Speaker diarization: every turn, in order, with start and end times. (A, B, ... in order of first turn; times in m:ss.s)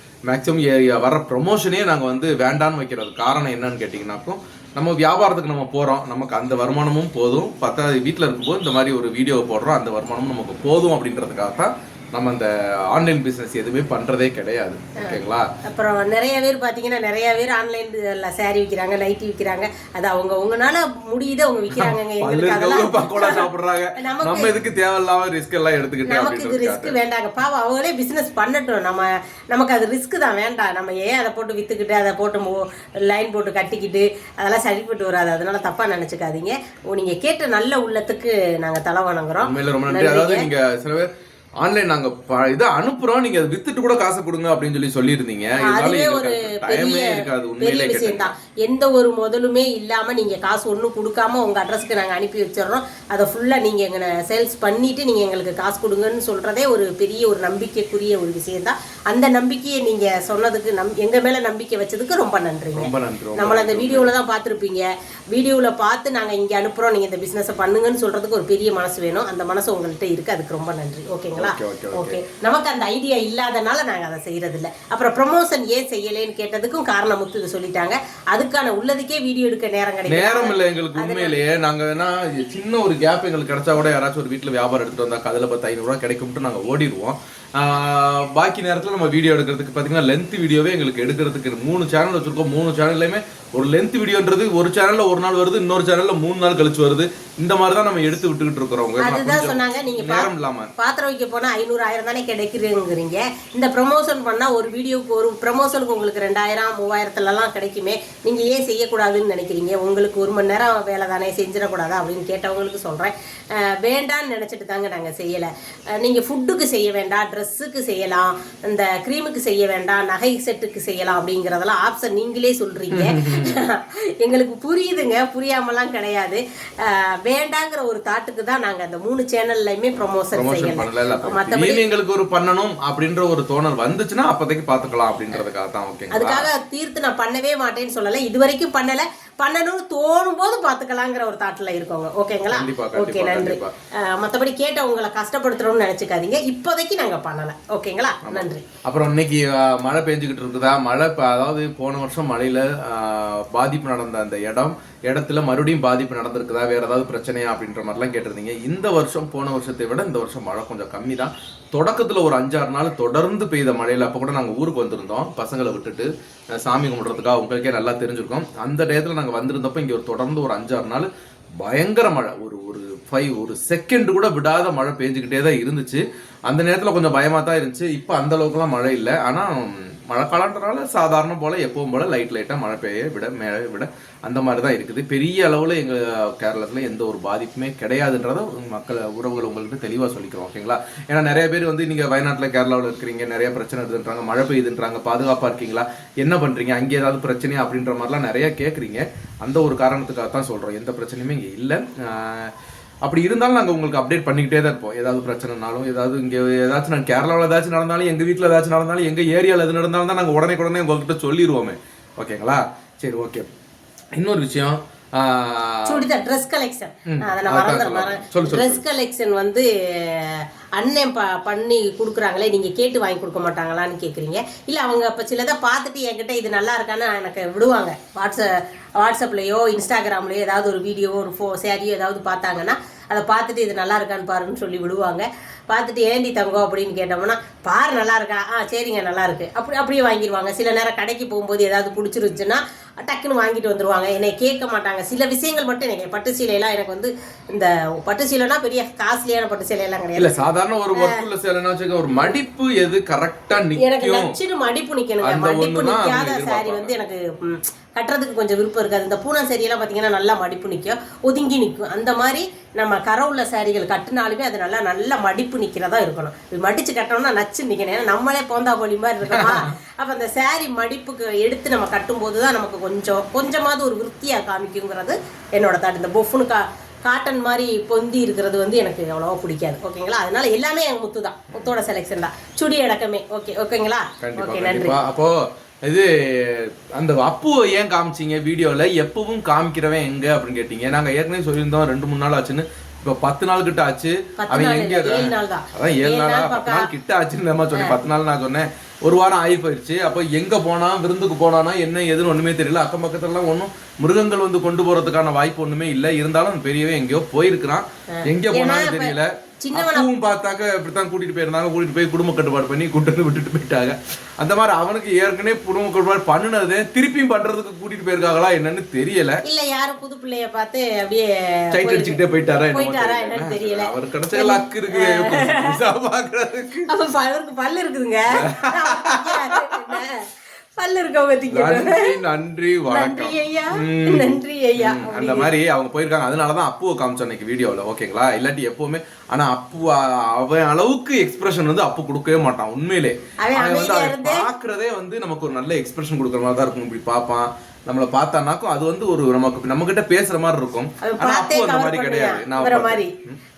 0:00.3-0:15.5 A
0:15.0-0:24.5 B
0:21.7-0:27.0 A
0:26.0-0:40.4 B
0:39.4-0:48.3 A
0:45.6-1:21.4 B
1:02.7-1:04.1 A
1:11.3-1:12.2 A
1:20.1-1:40.7 A
1:39.0-2:11.8 B
2:02.9-2:03.6 A
2:10.3-2:16.5 A
2:16.1-2:28.6 B
2:22.5-2:23.7 A
2:28.2-3:22.5 A
3:23.0-3:33.5 A
3:34.1-3:36.0 A
3:35.8-4:11.2 B
3:37.1-3:38.8 A
4:10.2-4:14.4 A
4:13.8-4:45.0 B
4:15.2-4:16.9 A
4:29.3-4:29.7 A
4:44.2-5:19.4 A
4:54.4-4:56.9 B
5:08.1-5:10.1 B
5:19.4-5:25.8 B
5:21.7-5:26.9 A
5:26.9-5:32.1 B
5:28.3-5:29.6 A
5:31.5-5:53.4 A
5:32.9-5:35.5 B
5:43.4-5:44.4 B
5:51.0-5:53.1 B